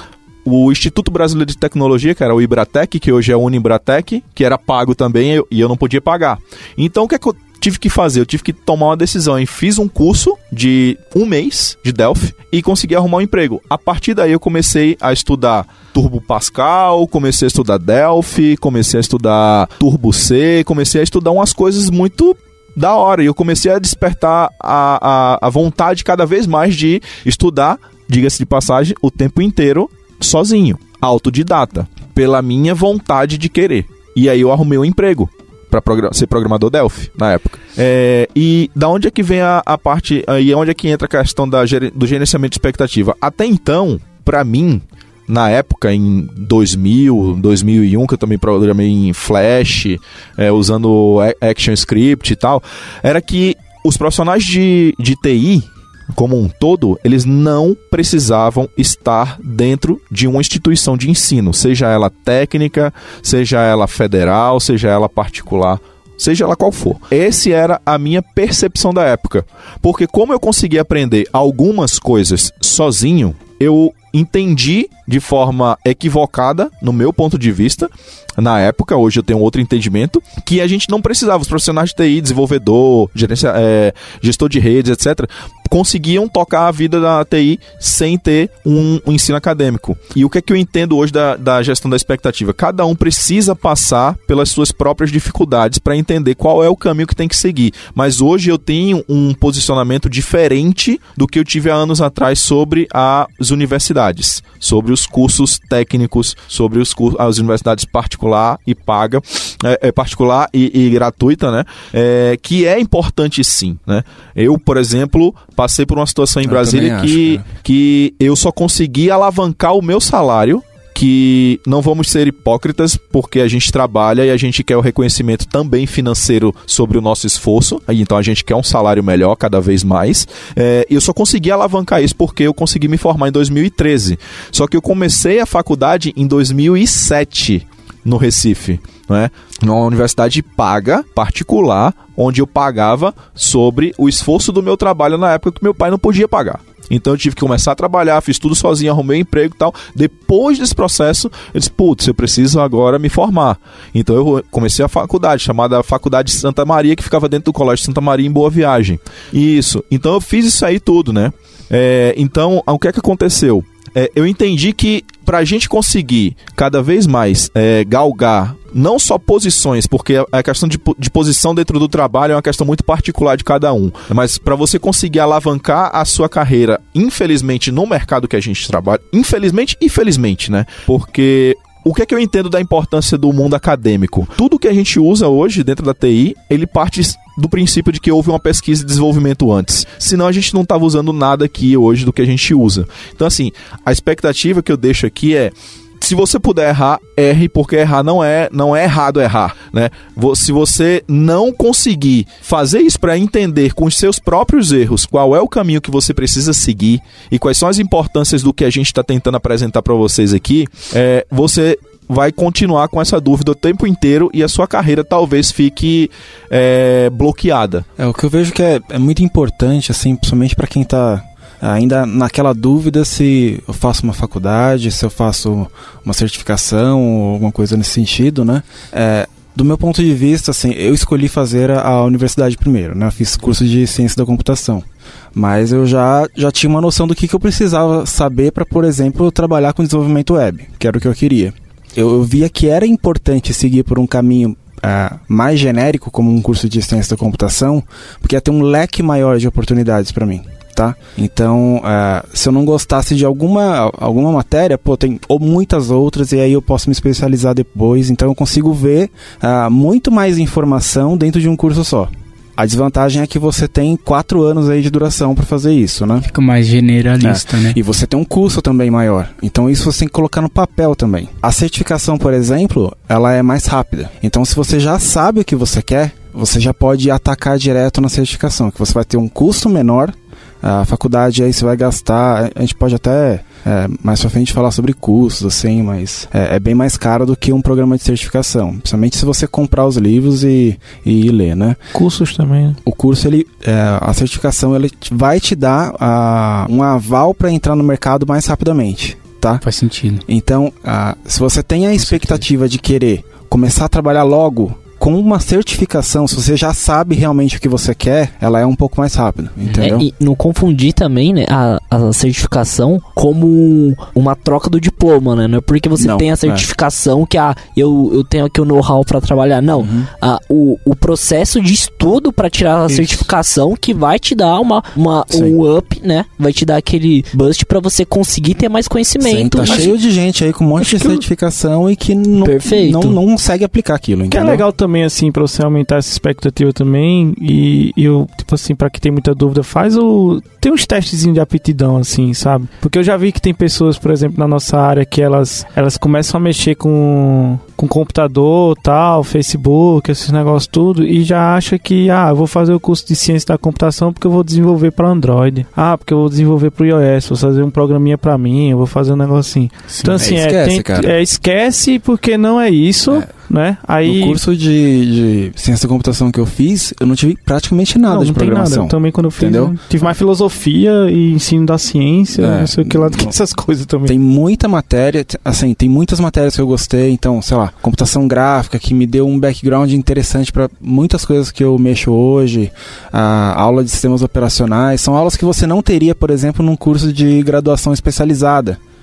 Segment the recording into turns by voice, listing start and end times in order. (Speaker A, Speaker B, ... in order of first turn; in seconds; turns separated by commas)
Speaker A: 0.4-217.8, Speaker B: 116.4-117.4, Speaker B: 218.0-234.8, Speaker B: 235.3-266.3, Speaker C: 266.2-267.8, Speaker B: 267.2-291.8, Speaker D: 291.9-292.8, Speaker B: 292.8-299.6, Speaker C: 299.6-300.2, Speaker B: 300.3-310.1, Speaker C: 302.0-302.4, Speaker E: 309.8-329.9, Speaker B: 316.0-316.6, Speaker B: 319.8-320.1, Speaker B: 325.3-325.6, Speaker B: 329.2-334.6, Speaker E: 332.4-333.2, Speaker D: 334.3-364.4, Speaker C: 359.9-360.2, Speaker B: 360.2-361.1, Speaker B: 364.0-369.8, Speaker D: 368.1-374.1, Speaker B: 372.4-373.3, Speaker B: 374.1-388.8